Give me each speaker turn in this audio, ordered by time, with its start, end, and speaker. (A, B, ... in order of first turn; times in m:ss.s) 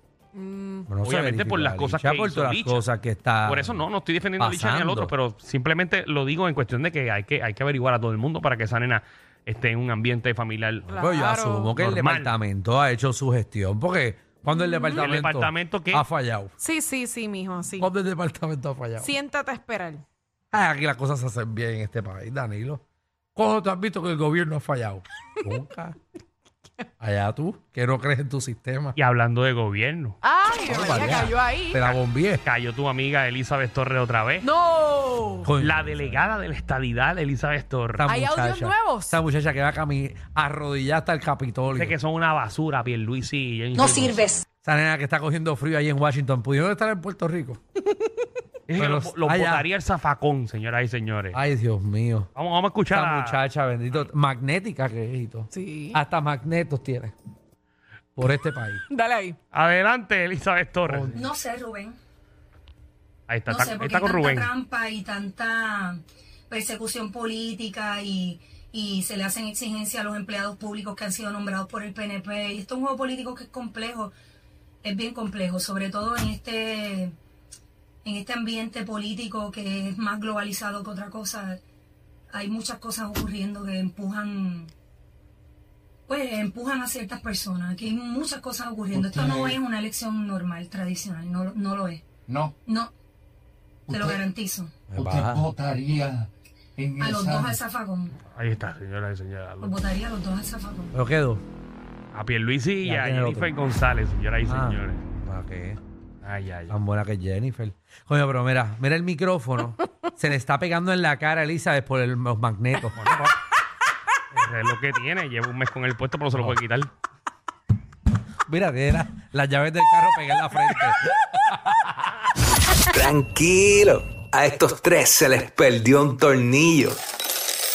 0:00.3-0:00.9 A
0:00.9-0:03.8 B
0:01.0-0:02.8 C
0:03.4-0:11.0 C
0:04.4-0:05.1 B
0:10.9-0:11.7 A
0:11.0-0:16.5 B
0:11.7-0:12.4 C
0:14.5-0:15.0 A
0:14.9-0:16.0 C
0:16.6-0:17.9 A
0:17.8-0:19.1 B
0:19.0-0:20.0 A
0:20.5-0:22.8 B
0:23.4-0:26.0 B
0:27.0-0:29.0 B
0:29.0-0:30.2 C
0:30.2-0:31.8 A
0:30.6-0:32.4 B
0:31.8-0:34.5 C
0:34.4-0:35.5 A
0:35.4-0:36.2 B
0:35.6-0:38.1 C
0:38.0-0:42.0 B
0:38.0-0:39.2 A
0:41.7-0:44.4 C
0:43.8-0:44.4 D
0:44.6-0:47.6 B
0:48.7-0:51.4 C
0:48.8-0:49.7 B
0:51.3-0:52.3 B
0:52.3-0:54.1 C
0:52.9-0:57.1 B
0:55.5-0:56.0 A
0:58.2-0:58.8 B
0:58.9-0:59.4 A
0:59.5-1:01.2 C
1:00.8-1:01.2 B
1:01.1-1:02.0 D
1:03.3-1:04.5 C
1:03.5-1:14.1 D
1:14.8-1:17.1 D
1:18.0-1:21.6 D
1:22.3-1:24.7 D
1:26.1-1:32.0 D
1:28.9-1:29.6 E
1:32.3-1:32.5 E
1:32.6-1:32.9 D
1:33.9-1:34.2 E
1:33.9-1:34.8 D
1:34.9-1:35.5 B
1:34.9-1:37.6 E
1:37.0-1:38.2 D
1:38.3-1:39.7 C
1:39.6-1:41.0 D
1:40.9-1:41.4 B
1:42.1-1:45.0 C
1:42.8-1:43.5 B
1:44.4-1:45.8 B
1:46.2-1:46.8 C
1:46.7-1:53.0 B
1:52.9-1:53.3 C
1:54.3-1:56.9 C
1:58.5-2:02.1 B
2:02.9-2:07.0 E